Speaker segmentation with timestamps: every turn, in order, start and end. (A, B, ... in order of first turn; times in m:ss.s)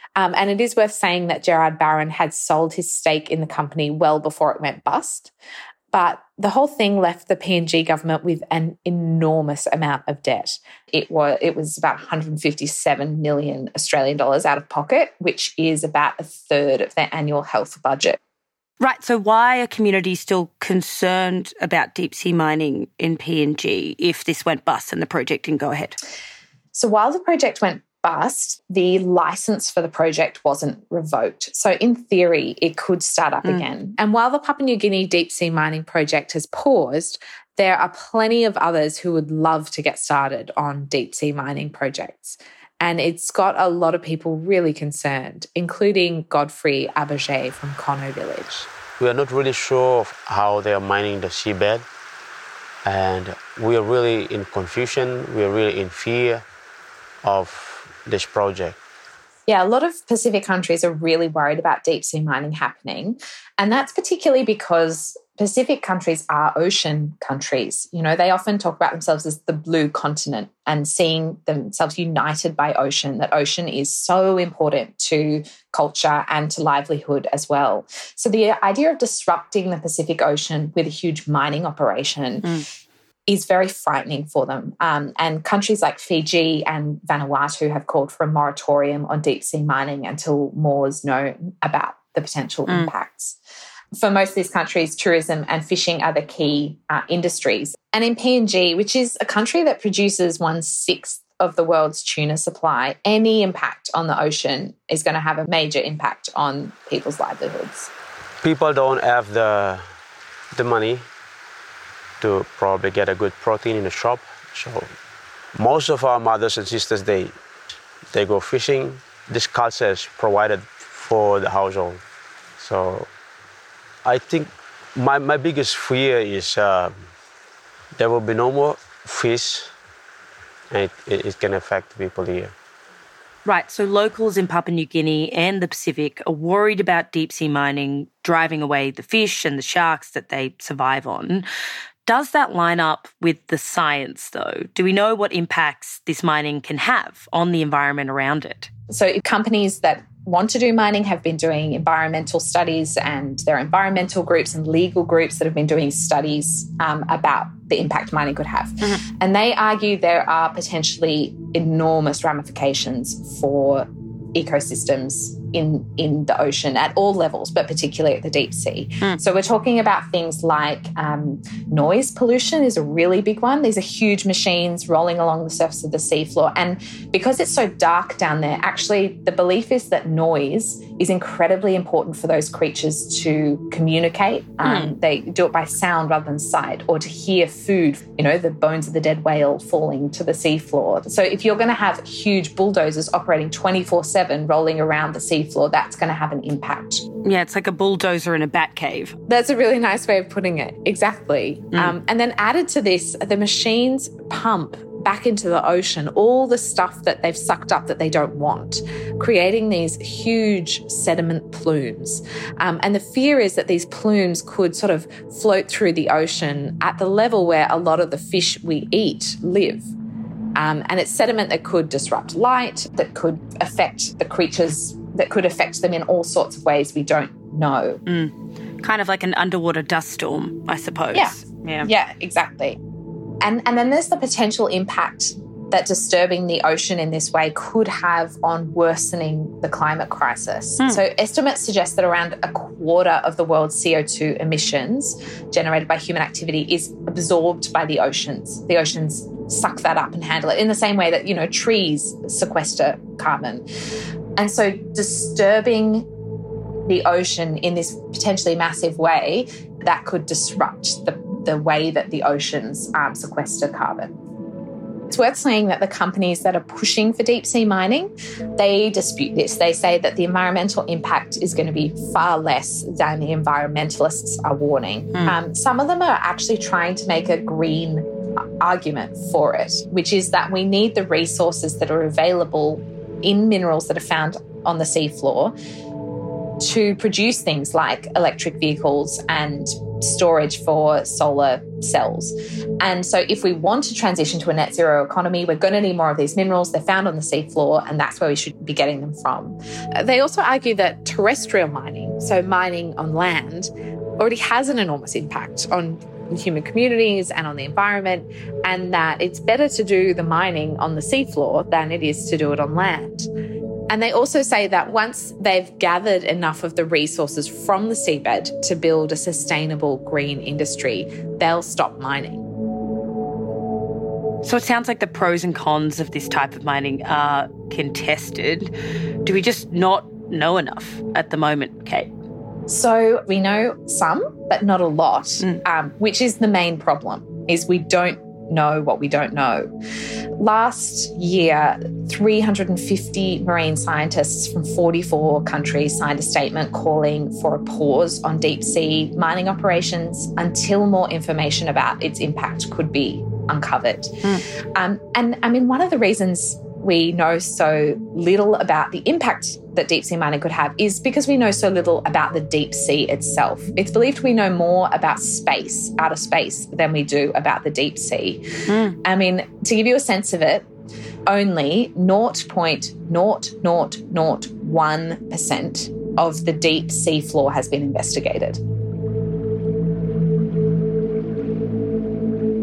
0:00.2-0:05.3 A
0:05.9-0:18.2 A
0:18.8-0:26.0 B
0:26.7-0:48.6 A
0:49.0-0:51.8 C
0:52.8-0:56.4 C
0:57.2-0:58.8 C
0:59.5-1:22.5 A
1:23.3-1:33.4 A
1:33.9-1:47.9 A
1:48.4-1:49.9 C
1:50.5-1:51.0 C
1:52.2-1:54.9 C
1:55.5-1:57.3 C
1:58.1-2:02.0 C
2:02.6-2:03.1 C
2:04.0-2:07.1 C
2:08.0-2:09.7 C
2:10.7-2:12.5 C
2:13.4-2:21.5 B
2:22.0-2:28.7 B
2:28.9-3:17.0 A
3:04.6-3:04.9 B
3:17.2-3:19.1 B
3:19.3-3:39.9 A
3:40.6-3:48.0 A
3:48.0-3:51.9 B
3:51.1-3:52.8 A
3:53.4-4:13.6 A
4:14.4-4:16.1 A
4:16.8-4:24.2 A
4:25.1-4:38.1 A
4:38.6-4:45.5 A
4:46.6-5:13.3 A
5:13.9-5:22.4 A
5:24.4-5:28.7 B
5:29.2-5:32.1 B
5:32.7-5:39.7 A
5:40.4-6:08.4 A
6:08.7-6:09.0 B
6:09.0-6:10.7 A
6:11.3-6:18.6 A